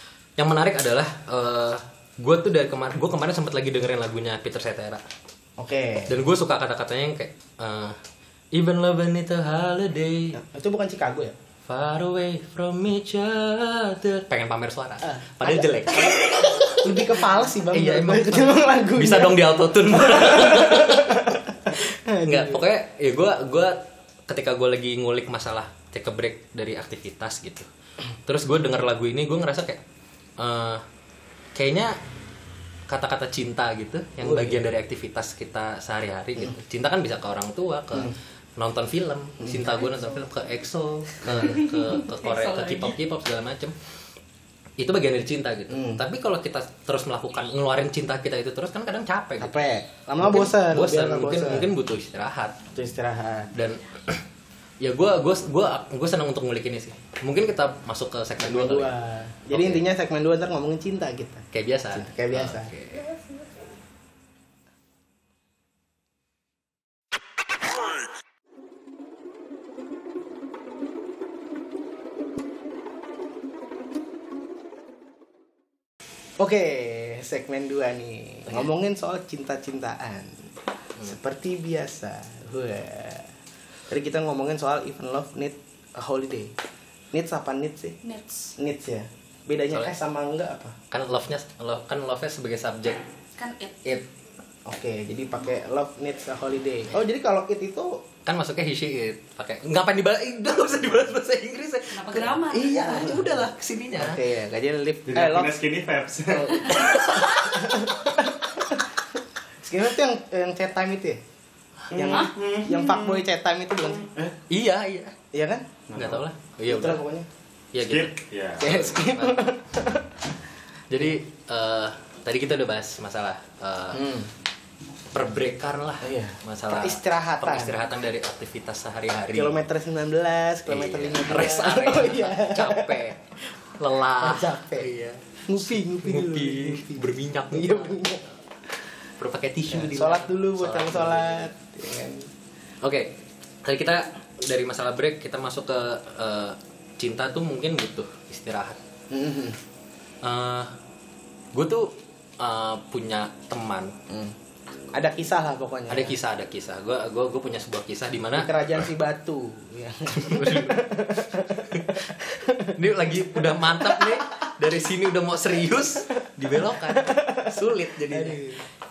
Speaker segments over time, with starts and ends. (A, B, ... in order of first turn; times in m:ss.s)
0:00.4-0:05.0 A
0:05.6-0:06.1 B
0:06.1-0:08.0 A
0:08.5-0:10.4 A
0:10.4-0:11.3 B
0:11.7-0:21.3 A
0:15.0-0:22.6 B
0:22.2-0:27.7 A
0:28.2-0:29.8 A
0:30.4-0:30.8 A
0:31.5-0:31.9 A
0:32.9-0:43.8 A
0:34.2-0:34.6 B
0:39.4-0:39.9 B
0:41.6-0:42.9 C
0:44.8-0:49.6 A
0:45.7-0:46.0 B
0:49.4-0:51.7 B
0:50.2-0:52.6 A
0:52.7-0:53.5 B
0:53.5-0:54.2 A
0:54.8-0:58.9 A
0:58.4-1:02.7 B
0:59.5-0:59.8 A
1:01.5-1:03.1 A
1:16.4-1:20.4 B
1:21.0-1:23.3 B
1:23.9-1:26.5 B
1:27.1-1:28.0 B
1:28.0-1:28.6 C
1:28.6-1:30.8 B
1:30.9-1:33.0 A
1:33.4-1:33.7 C
1:34.6-1:37.9 B
1:38.2-1:44.2 A
1:41.9-1:42.9 C
1:42.8-1:43.2 B
1:44.0-1:45.5 B
1:45.1-1:47.0 D
1:46.3-1:48.9 B
1:46.6-1:48.2 A
1:49.6-1:51.2 B
1:51.9-1:53.0 D
1:51.9-1:54.1 B
1:52.1-1:52.3 C
1:54.5-1:55.1 A
1:55.3-1:55.7 B
1:55.9-1:56.2 D
1:55.9-1:57.0 A
1:56.7-1:57.3 B
1:57.7-1:59.5 A
1:57.8-1:58.7 D
1:58.6-2:00.1 B
2:00.9-2:04.1 A
2:03.9-2:04.3 B
2:05.1-2:09.6 A
2:06.0-2:07.7 B
2:09.3-2:13.0 B
2:10.7-2:18.1 A
2:14.2-2:14.9 B
2:15.5-2:18.2 B
2:19.2-2:21.5 A
2:19.7-2:22.3 B
2:22.8-2:23.1 A
2:23.6-2:28.8 A
2:29.1-2:29.6 B
2:30.2-2:30.7 A
2:31.5-2:34.0 A
2:34.1-2:34.3 B
2:34.9-2:36.2 B
2:35.9-2:38.6 A
2:38.3-2:44.2 B
2:40.1-2:40.8 A
2:41.7-2:42.1 A
2:42.7-2:48.4 A
2:46.9-2:47.5 B
2:48.1-2:48.6 B